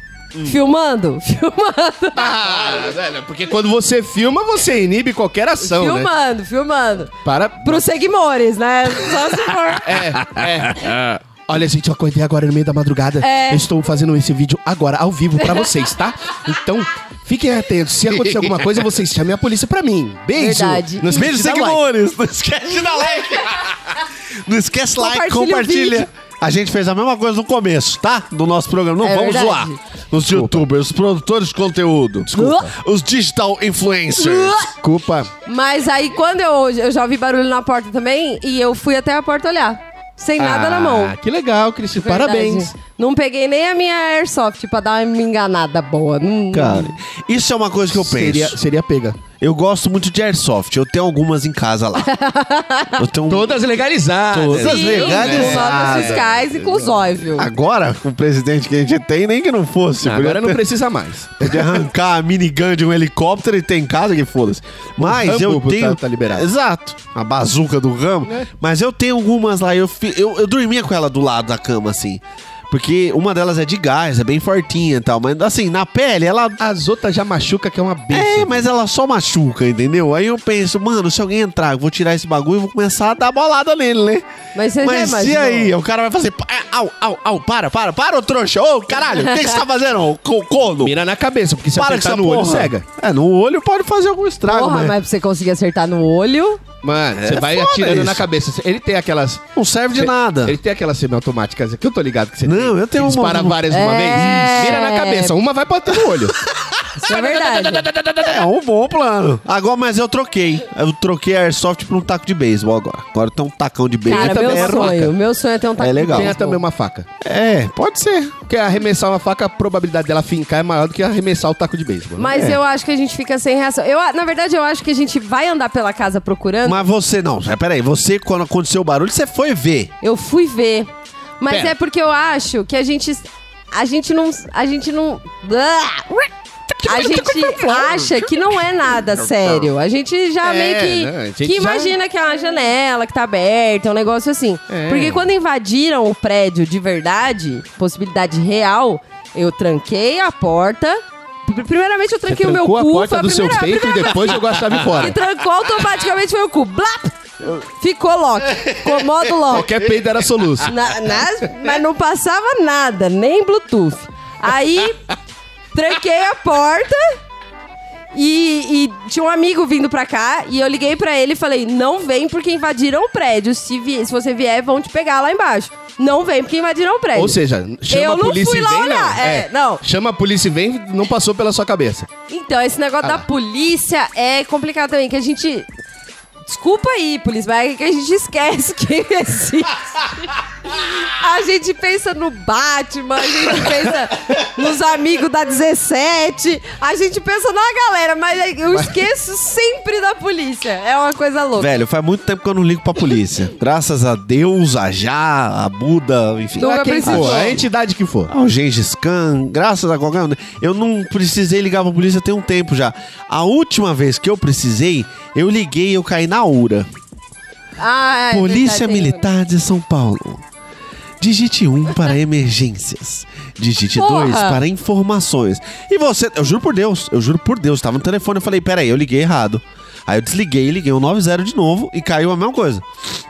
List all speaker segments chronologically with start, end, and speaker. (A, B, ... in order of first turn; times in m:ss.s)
0:00.4-0:02.4 A
0:02.2-0:06.1 B
0:05.6-0:09.9 A
0:07.2-0:07.9 B
0:09.8-0:21.4 B
0:10.3-0:11.0 C
0:13.2-0:13.7 A
0:20.3-0:21.8 A
0:21.1-0:34.7 C
0:25.0-0:26.0 A
0:29.0-0:29.8 A
0:30.3-0:30.6 B
0:32.3-0:32.8 B
0:32.4-0:32.7 A
0:34.2-0:34.7 A
0:34.8-0:35.3 B
0:35.5-0:41.2 A
0:40.4-0:42.7 B
0:42.0-0:47.0 A
0:46.5-0:48.6 C
0:48.0-0:49.2 B
0:49.4-0:52.1 C
0:52.0-0:53.0 A
0:53.0-0:53.6 C
0:53.3-0:56.9 B
0:54.3-0:56.2 C
0:54.6-0:57.5 A
0:57.4-1:00.6 C
1:00.0-1:01.8 B
1:01.4-1:16.6 C
1:05.0-1:06.5 B
1:16.6-1:18.7 B
1:18.1-1:24.2 C
1:24.6-1:25.7 A
1:24.8-1:31.0 C
1:29.1-1:29.6 A
1:30.8-1:32.8 B
1:31.8-1:35.0 C
1:34.5-1:36.6 A
1:36.8-1:46.4 B
1:37.2-1:38.2 C
1:39.6-1:40.6 C
1:42.4-1:44.8 C
1:43.7-1:45.3 A
1:46.7-1:47.1 C
1:47.0-1:47.9 A
1:47.8-1:55.2 C
1:54.1-1:56.6 A
1:54.1-1:55.0 B
1:55.8-1:56.4 C
1:56.1-1:57.1 B
1:57.2-1:58.4 C
1:58.5-2:02.4 B
2:02.2-2:06.9 A
2:02.3-2:02.6 C
2:06.6-2:09.9 C
2:10.0-2:16.3 A
2:16.8-2:18.5 C
2:16.8-2:39.7 A
2:19.1-2:19.7 C
2:20.4-2:22.0 B
2:24.7-2:25.2 B
2:32.3-2:35.1 B
2:38.6-2:39.3 C
2:39.5-2:40.7 B
2:40.6-2:45.1 A
2:45.7-2:47.2 A
2:48.1-2:57.4 A
2:57.2-3:02.1 B
2:57.9-2:59.8 A
3:02.3-3:05.7 A
3:06.5-3:21.7 A
3:18.7-3:19.0 B
3:21.6-3:27.6 C
3:26.6-3:27.6 A
3:26.6-3:28.3 B
3:28.3-3:36.9 C
3:37.8-3:39.3 A
3:38.3-3:40.4 C
3:41.2-3:53.1 C
3:43.9-3:44.6 A